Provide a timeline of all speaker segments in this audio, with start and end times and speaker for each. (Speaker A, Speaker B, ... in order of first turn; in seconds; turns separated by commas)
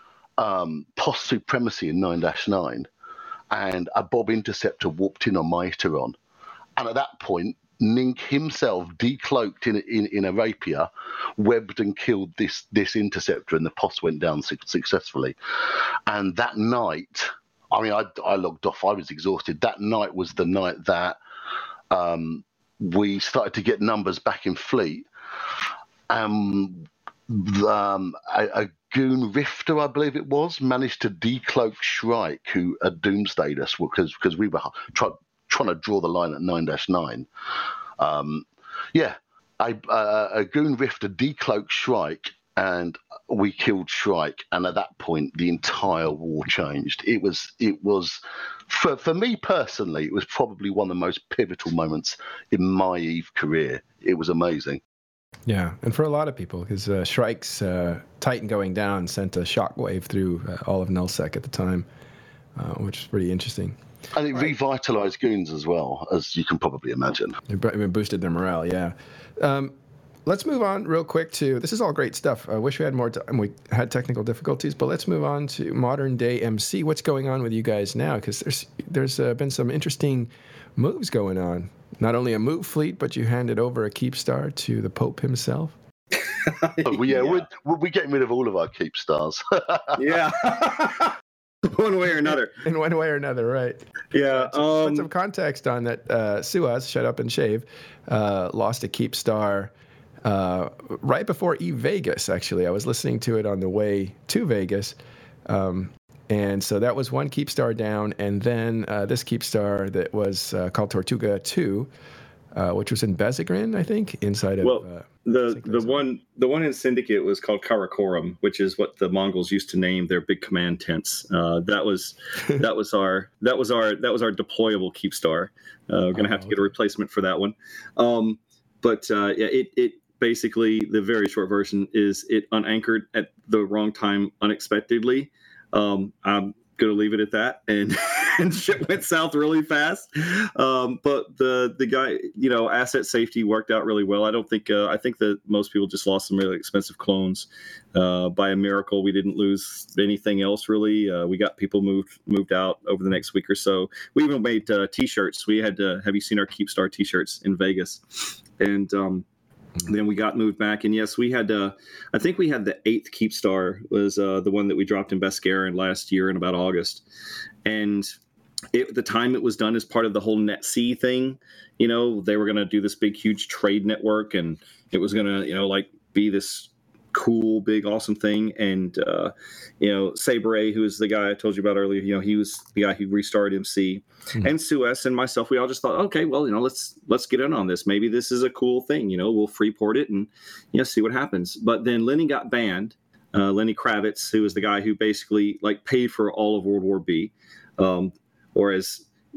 Speaker A: 0.4-2.9, Speaker A: 3.5-6.2, Speaker A: 6.8-21.2, Speaker A: 21.9-25.1, Speaker A: 26.1-37.3, Speaker A: 38.0-54.8, Speaker B: 55.5-61.9, Speaker B: 62.5-63.8, Speaker A: 64.1-67.4, Speaker B: 67.5-69.7, Speaker B: 70.2-85.7, Speaker C: 86.4-87.5, Speaker A: 86.8-90.2, Speaker C: 90.0-91.1, Speaker C: 91.7-92.5, Speaker B: 92.1-99.7, Speaker C: 94.1-95.1, Speaker B: 100.2-105.0, Speaker B: 105.5-111.9, Speaker B: 112.5-116.0, Speaker C: 114.6-159.2, Speaker B: 126.1-126.7, Speaker C: 159.8-167.0, Speaker C: 167.6-168.1, Speaker C: 168.7-199.1